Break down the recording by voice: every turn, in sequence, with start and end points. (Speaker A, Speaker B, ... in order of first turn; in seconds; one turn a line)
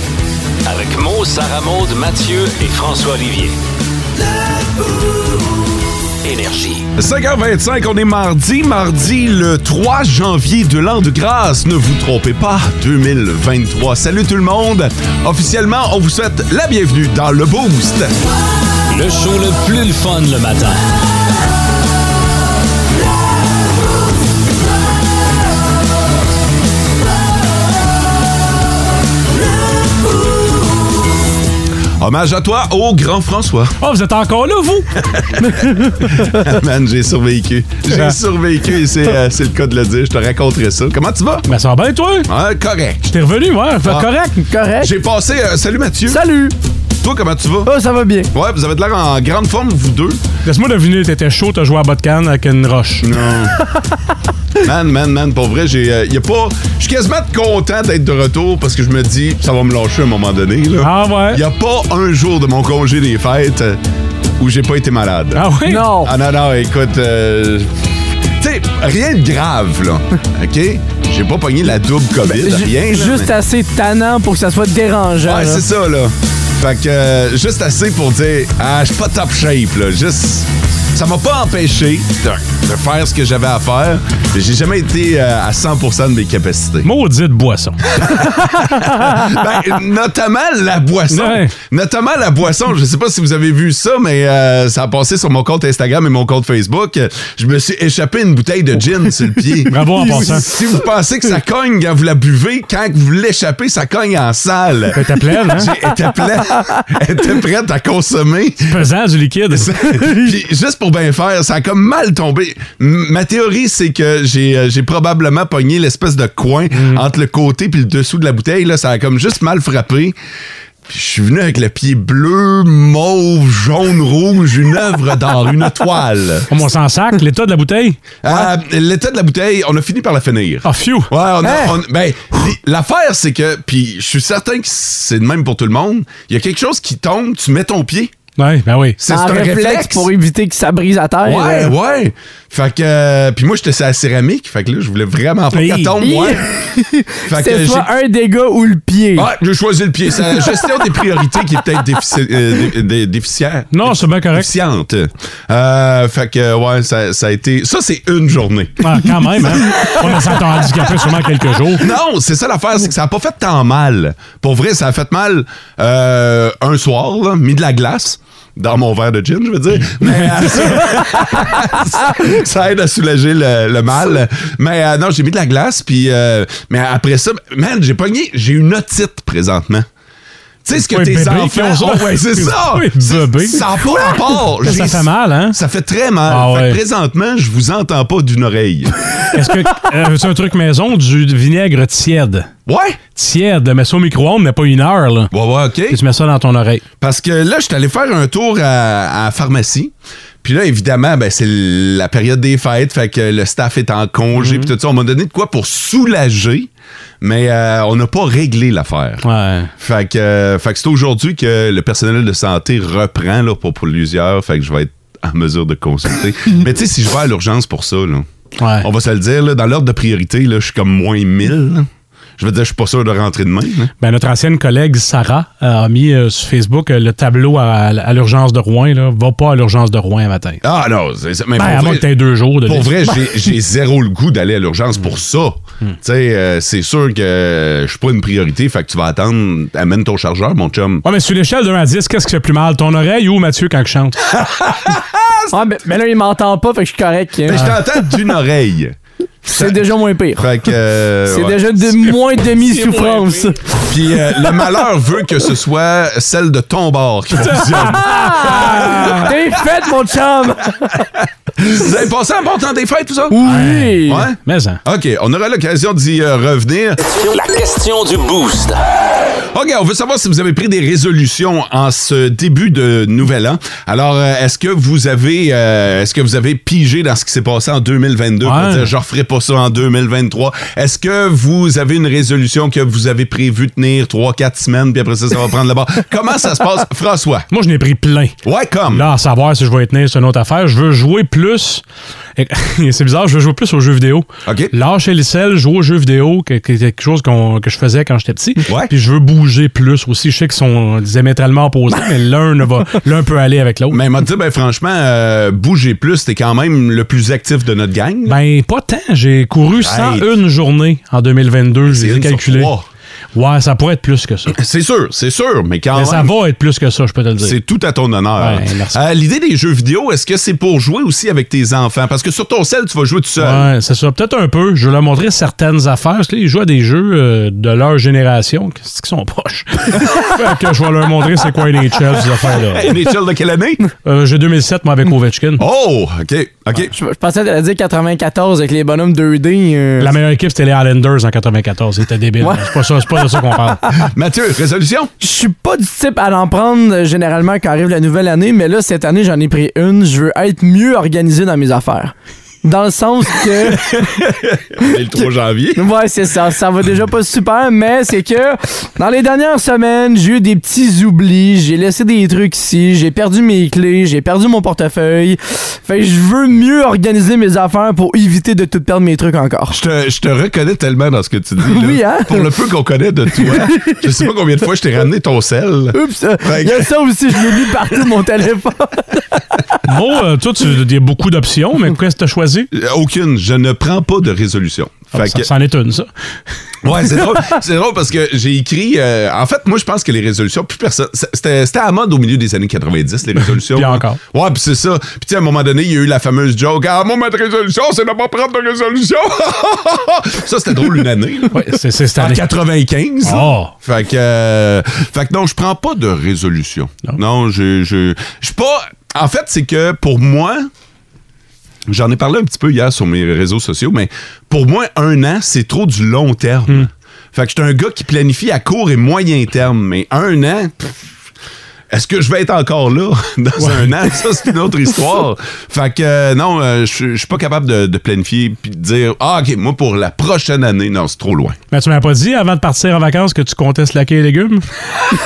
Speaker A: 0.6-3.5
Speaker A: 6.2-6.9
Speaker B: 7.0-18.1
Speaker A: 18.9-20.8
Speaker B: 32.0-33.8
Speaker C: 33.8-34.9
Speaker B: 35.3-41.5
Speaker C: 35.4-35.8
Speaker C: 41.5-42.3
Speaker B: 42.3-43.1
Speaker C: 43.0-44.3
Speaker D: 44.4-44.9
Speaker B: 44.8-46.2
Speaker D: 46.1-46.5
Speaker B: 47.0-47.7
Speaker D: 47.6-48.3
Speaker B: 48.3-50.2
Speaker C: 50.5-53.2
Speaker B: 53.0-53.5
Speaker B: 54.6-63.8
Speaker C: 60.8-61.4
Speaker B: 64.4-67.7
Speaker C: 65.3-65.9
Speaker D: 65.6-66.1
Speaker B: 68.4-73.3
Speaker D: 72.2-75.6
Speaker B: 75.2-86.9
Speaker C: 86.8-88.0
Speaker B: 88.0-108.8
Speaker C: 88.6-88.8
Speaker C: 91.1-91.5
Speaker C: 99.7-100.5
Speaker C: 104.9-105.7
Speaker C: 108.6-110.1
Speaker B: 109.5-120.2
Speaker C: 116.7-117.0
Speaker B: 120.9-126.5
Speaker C: 126.5-128.2
Speaker B: 128.2-138.2
Speaker C: 130.6-131.1
Speaker D: 131.4-131.8
Speaker C: 138.4-139.0
Speaker B: 139.0-140.1
Speaker D: 139.1-141.7
Speaker B: 141.2-146.4
Speaker C: 145.5-146.0
Speaker D: 146.0-149.3
Speaker B: 147.2-147.9
Speaker B: 149.2-161.0
Speaker C: 153.7-154.5
Speaker C: 158.8-161.9
Speaker B: 161.8-179.9
Speaker B: 180.6-188.9
Speaker C: 180.7-183.7
Speaker C: 184.6-185.6
Speaker C: 186.3-186.8
Speaker C: 189.3-192.5
Speaker B: 192.7-193.0
Speaker C: 193.1-195.3
Speaker B: 195.3-196.0
Speaker C: 195.9-196.8
Speaker B: 197.0-206.7
Speaker C: 204.4-204.7
Speaker B: 207.2-209.2
Speaker C: 209.2-209.7
Speaker B: 209.8-218.3
Speaker C: 218.6-218.8
Speaker B: 218.8-223.9
Speaker C: 224.0-230.6
Speaker B: 230.6-232.1
Speaker C: 231.6-233.3
Speaker B: 232.6-241.0
Speaker C: 241.0-244.2
Speaker B: 244.4-245.5
Speaker D: 245.5-247.7
Speaker B: 247.5-249.8
Speaker D: 249.4-250.4
Speaker B: 250.3-251.7
Speaker D: 251.3-253.6
Speaker C: 252.5-253.5
Speaker B: 253.8-259.3
Speaker C: 257.5-259.3
Speaker D: 258.1-258.5
Speaker D: 259.2-261.0
Speaker B: 261.6-263.5
Speaker D: 263.3-264.2
Speaker C: 263.4-264.8
Speaker B: 264.1-267.0
Speaker A: 267.2-268.8
Speaker B: 269.5-287.5
Speaker C: 278.4-278.9
Speaker C: 287.5-288.3
Speaker B: 288.4-289.1
Speaker C: 288.9-291.8
Speaker C: 292.4-304.0
Speaker B: 294.4-294.7
Speaker B: 298.6-298.9
Speaker B: 303.9-308.4
Speaker C: 308.2-312.7
Speaker B: 309.8-310.3
Speaker B: 311.8-312.8
Speaker C: 313.3-314.6
Speaker B: 314.5-316.3
Speaker C: 315.9-317.5
Speaker B: 317.4-323.7
Speaker C: 318.4-319.0
Speaker C: 323.4-333.0
Speaker B: 332.7-333.8
Speaker C: 334.0-335.6
Speaker B: 335.6-336.9
Speaker D: 336.9-340.1
Speaker C: 340.0-343.8
Speaker D: 342.4-342.9
Speaker B: 344.0-345.1
Speaker D: 345.2-354.1
Speaker B: 353.6-355.8
Speaker D: 355.8-369.8
Speaker B: 369.7-377.8
Speaker D: 371.6-372.4
Speaker D: 373.4-374.0
Speaker D: 375.9-379.8
Speaker C: 379.9-382.7
Speaker B: 382.7-385.5
Speaker C: 385.1-386.1
Speaker B: 386.8-410.7
Speaker C: 393.7-394.2
Speaker C: 401.5-402.4
Speaker C: 403.2-403.7
Speaker B: 411.9-420.9
Speaker B: 421.9-431.6
Speaker C: 423.6-423.9
Speaker C: 431.7-434.6